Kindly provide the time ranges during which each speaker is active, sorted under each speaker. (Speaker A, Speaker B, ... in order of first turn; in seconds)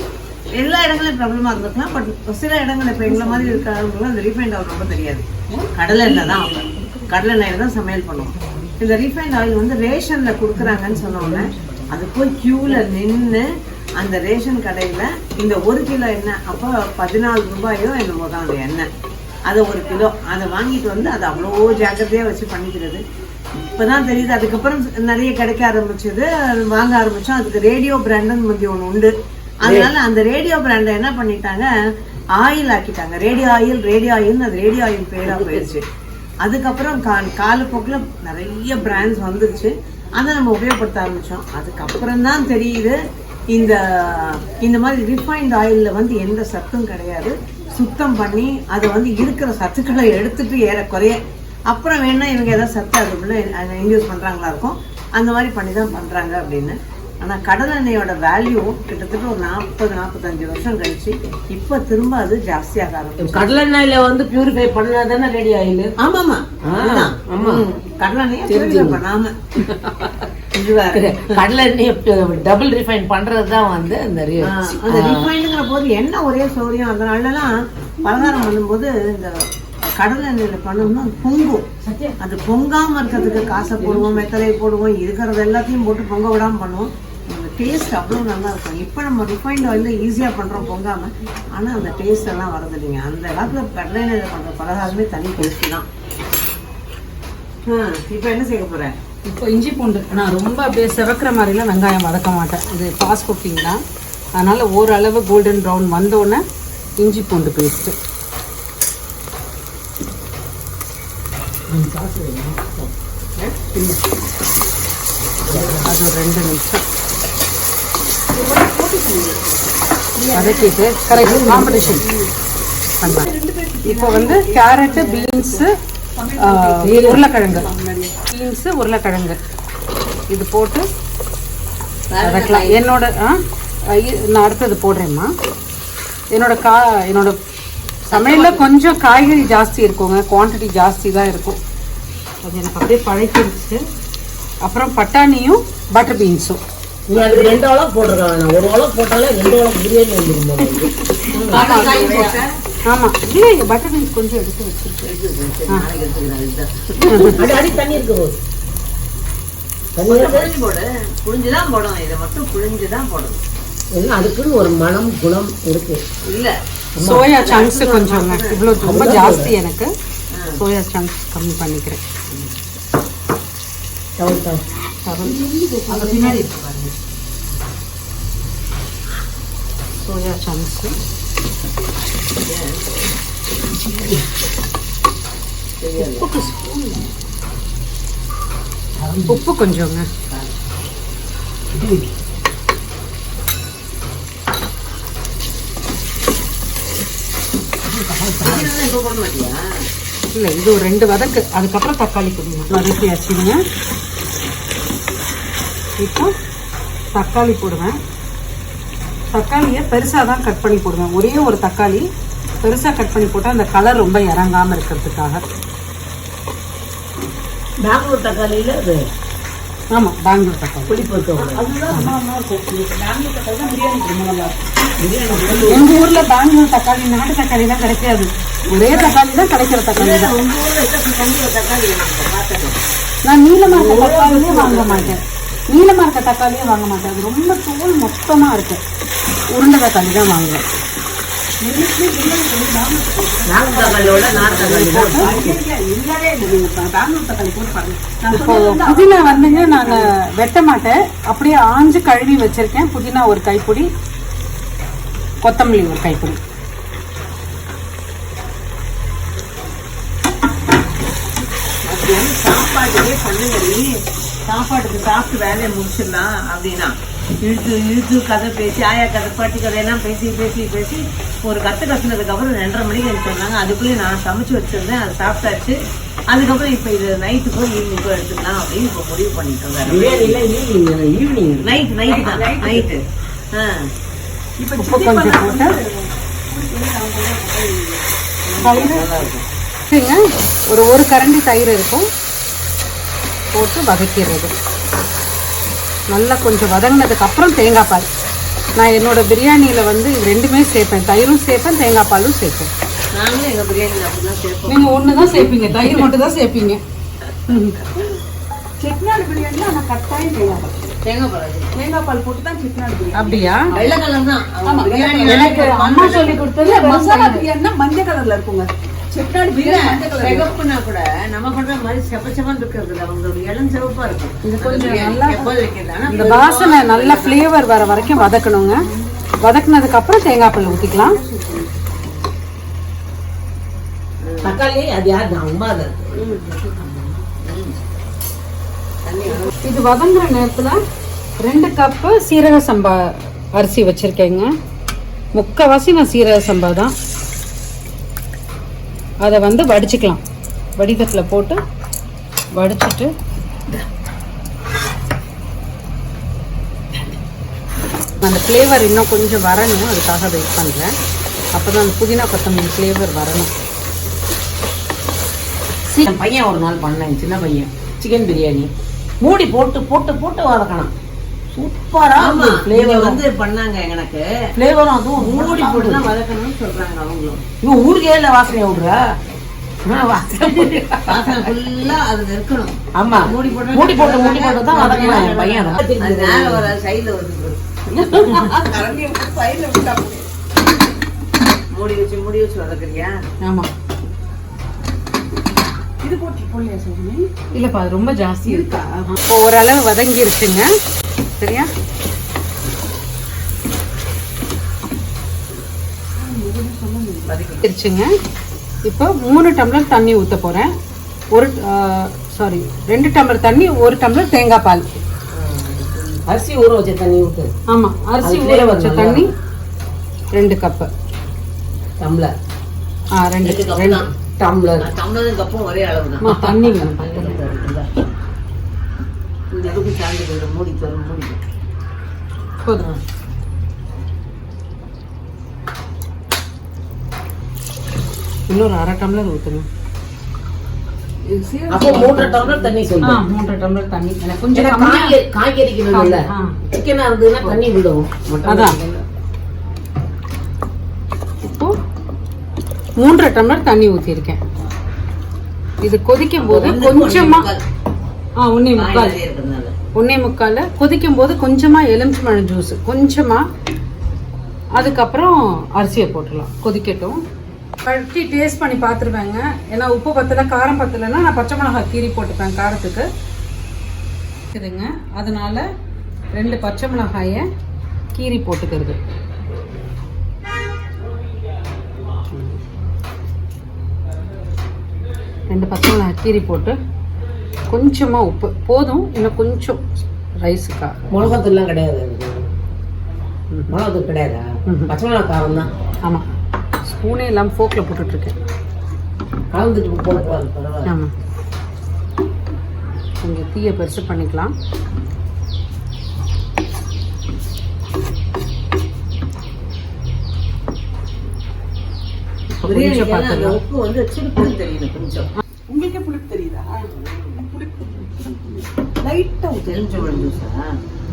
Speaker A: 0.5-18.9, 19.5-23.0, 23.6-29.1, 29.6-31.7, 32.4-35.8, 36.4-43.0, 43.5-51.2, 51.7-63.5, 66.0-69.3, 70.5-71.4, 74.4-77.5, 78.0-79.3, 80.0-81.7, 82.2-95.8, 97.7-98.9, 120.2-120.7, 132.1-132.8, 138.1-138.7, 147.1-147.6, 151.3-152.5, 155.0-157.7, 160.0-163.4, 166.3-166.5, 167.3-168.8, 182.4-182.8, 185.8-186.3, 198.4-199.6, 229.9-232.8, 261.9-263.9, 264.5-275.8, 276.3-280.4, 281.6-283.0, 283.5-283.8, 288.5-289.4, 303.1-305.0, 311.0-311.7, 313.7-316.5, 319.6-327.4, 334.2-334.6, 336.2-336.4, 337.4-337.8, 339.0-339.5, 372.1-374.2, 375.2-377.4, 381.1-387.6, 391.7-393.1, 407.3-407.6, 415.3-416.2, 423.4-423.9, 424.8-427.9, 429.5-431.4, 456.4-457.6, 458.7-459.7, 500.2-500.4, 512.6-515.3, 519.6-520.6
Speaker B: 3.1-3.6, 6.3-6.8, 118.3-119.8, 121.7-122.3, 123.0-128.1, 175.2-176.5, 221.4-225.8, 228.8-229.1, 241.6-250.1, 282.1-282.9, 284.6-289.2, 308.8-310.9, 311.7-314.0, 314.6-315.6, 316.6-320.5, 327.9-329.3, 330.6-331.9, 336.3-337.2, 388.1-390.3, 396.0-397.3, 398.4-399.1, 406.2-407.3, 441.2-443.0, 515.7-520.3
Speaker C: 6.2-7.1, 8.4-8.7, 81.8-82.2, 99.2-103.8, 104.3-106.4, 107.0-107.9, 115.8-116.8, 120.3-122.0, 123.0-123.3, 123.8-125.7, 126.4-127.7, 128.3-129.4, 130.3-130.8, 132.2-135.3, 136.3-137.3, 138.1-141.6, 142.4-143.8, 144.6-146.6, 151.4-152.4, 152.9-155.1, 157.1-157.4, 167.0-169.9, 170.5-172.0, 175.0-176.5, 180.0-180.9, 186.0-187.0, 189.3-190.0, 200.3-203.6, 206.0-206.3, 207.1-208.0, 209.3-212.0, 212.6-215.4, 219.9-220.9, 225.7-230.3, 233.2-238.8, 239.5-240.6, 244.6-245.4, 248.3-253.9, 255.4-256.4, 284.8-285.8, 288.6-289.0, 289.9-292.1, 293.5-294.5, 296.1-298.1, 298.8-302.7, 304.7-306.8, 307.5-307.8, 313.1-313.7, 315.2-317.5, 324.4-325.5, 326.1-328.7, 329.4-331.2, 339.6-340.8, 341.4-344.5, 345.3-346.9, 349.2-350.2, 350.8-351.6, 352.5-353.1, 358.2-360.9, 361.5-363.5, 384.8-385.3, 393.4-393.7, 397.5-400.7, 401.4-401.7, 407.6-408.1, 408.8-410.7, 411.3-414.8, 417.7-419.3, 420.3-420.9, 423.1-424.0, 426.2-427.4, 438.5-439.6, 443.0-445.2, 445.9-446.6, 448.5-448.8, 451.4-451.7, 453.0-454.4, 455.8-457.5, 458.4-459.2, 459.9-463.4, 464.8-467.2, 467.8-473.1, 474.5-475.6, 476.3-477.5, 478.1-479.0, 482.3-482.6, 485.5-486.7, 487.7-489.8, 490.4-491.3, 496.9-498.3, 500.9-501.1, 503.2-504.5, 512.5-513.6
Speaker D: 29.6-29.9, 35.3-35.6, 63.2-65.9, 66.7-67.6, 68.5-69.0, 69.6-70.1, 70.9-75.3, 111.7-112.9, 115.4-115.9, 121.1-122.0, 126.8-127.2, 147.1-151.8, 157.3-158.4, 159.9-160.5, 163.9-166.0, 166.9-167.3, 168.8-169.5, 174.2-174.6, 183.7-184.2, 189.0-189.4, 191.7-192.1, 197.9-198.7, 217.8-219.0, 220.9-221.6, 225.0-225.9, 233.7-235.2, 243.4-245.6, 279.8-281.7, 334.4-336.1, 365.9-368.7, 369.2-370.9, 371.6-373.2, 374.6-376.1, 377.6-379.0, 379.8-381.5, 383.0-386.7, 416.3-417.5, 418.2-419.3, 422.0-422.3, 423.7-424.9, 427.2-427.6, 441.7-443.2, 444.5-449.0, 491.1-492.4, 493.7-495.7, 499.5-500.9